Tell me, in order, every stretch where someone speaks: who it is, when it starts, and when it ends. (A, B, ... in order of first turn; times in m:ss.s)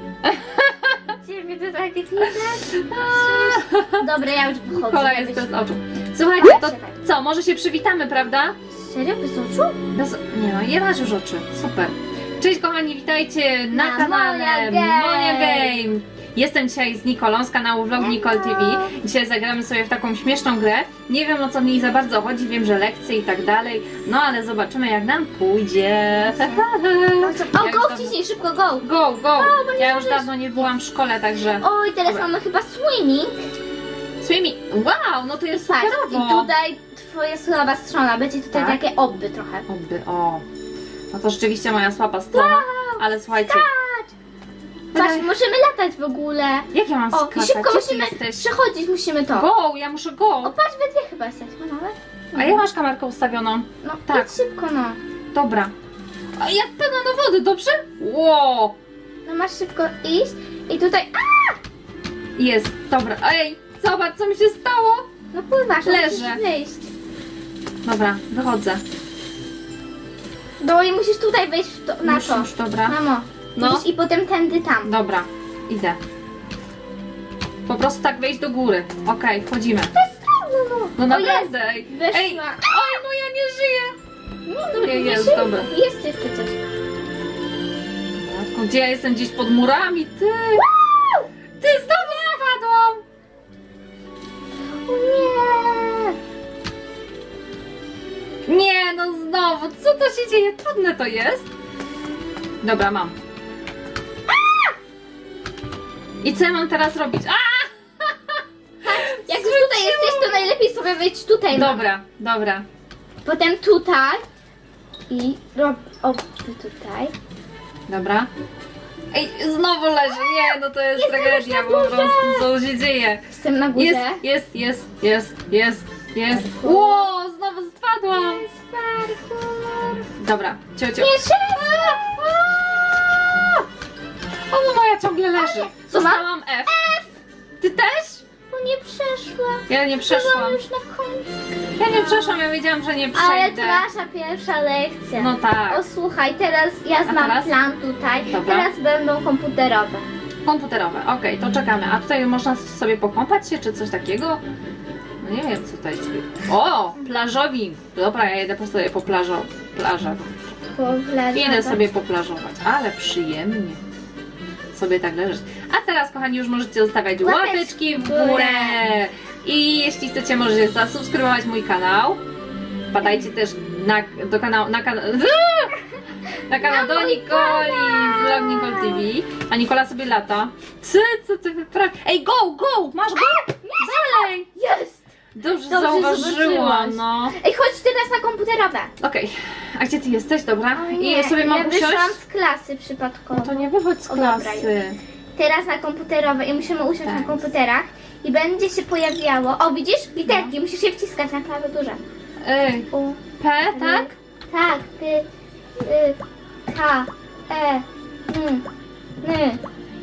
0:00.2-0:01.1 A
0:01.1-0:05.5 B
0:02.7-0:04.0 A
0:04.7-0:08.5 A
0:06.4-0:07.0 B
0:08.7-0:09.8 B
0:09.9-0:28.2 A
0:13.7-0:15.8 B
0:18.0-0:18.9 B
0:26.2-0:26.6 B
0:27.2-0:30.7 B
0:28.8-0:32.2 A
0:31.5-0:33.3 B
0:34.2-0:36.5 A
0:35.5-0:39.6 B
0:38.5-0:38.8 A
0:39.7-0:40.4 A
0:41.1-0:43.7 A
0:42.3-0:44.1 B
0:44.9-0:45.3 A
0:44.9-0:49.5 B
0:46.7-0:48.5 A
0:49.3-0:50.5 A
0:50.4-0:52.6 B
0:52.3-0:54.3 A
0:53.8-0:55.0 B
0:55.3-0:55.7 A
0:56.4-0:58.7 A
0:59.2-1:01.6 B
1:02.4-1:05.1 A
1:05.3-1:06.9 B
1:05.8-1:06.4 A
1:07.8-1:08.8 A
1:10.6-1:14.9 B
1:12.0-1:13.0 A
1:13.6-1:13.8 A
1:14.8-1:16.0 A
1:17.6-1:19.9 A
1:19.9-1:23.0 B
1:21.0-1:24.0 A
1:24.4-1:26.6 B
1:24.8-1:25.7 A
1:28.2-1:30.7 A
1:31.6-1:33.0 A
1:34.8-1:36.2 B
1:38.4-1:41.5 A
1:42.6-1:43.2 A
1:46.2-1:50.5 A
1:48.8-1:51.8 B
1:51.5-1:52.6 A
1:53.2-1:54.2 B
1:55.1-1:57.1 B
1:57.9-1:58.3 A
1:59.1-2:08.4 A
2:01.0-2:02.5 B
2:03.3-2:04.2 B
2:06.5-2:07.1 B
2:08.2-2:10.0 B
2:10.2-2:13.6 A
2:11.0-2:12.6 B
2:14.5-2:16.8 A
2:15.3-2:17.1 B
2:17.6-2:18.2 A
2:18.5-2:22.5 B
2:19.7-2:20.6 A
2:21.8-2:23.8 A
2:23.1-2:30.1 B
2:25.2-2:25.8 A
2:27.0-2:27.5 A
2:28.3-2:28.7 A
2:30.4-2:34.4 A
2:35.2-2:40.4 A
2:40.7-2:41.8 B
2:41.3-2:43.8 A
2:44.7-2:52.2 A
2:47.2-2:48.8 B
2:52.9-2:55.8 A
2:56.5-3:04.5 A
2:56.6-2:59.1 B
3:03.6-3:05.0 B
3:05.3-3:07.4 A
3:05.7-3:08.9 B
3:09.0-3:12.2 A
3:10.7-3:14.7 B
3:13.3-3:15.0 A
3:15.4-3:22.0 B
3:17.0-3:17.4 A
3:20.3-3:20.5 A
3:22.4-3:24.1 A
3:22.9-3:26.2 B
3:26.7-3:28.6 B
3:29.2-3:29.6 B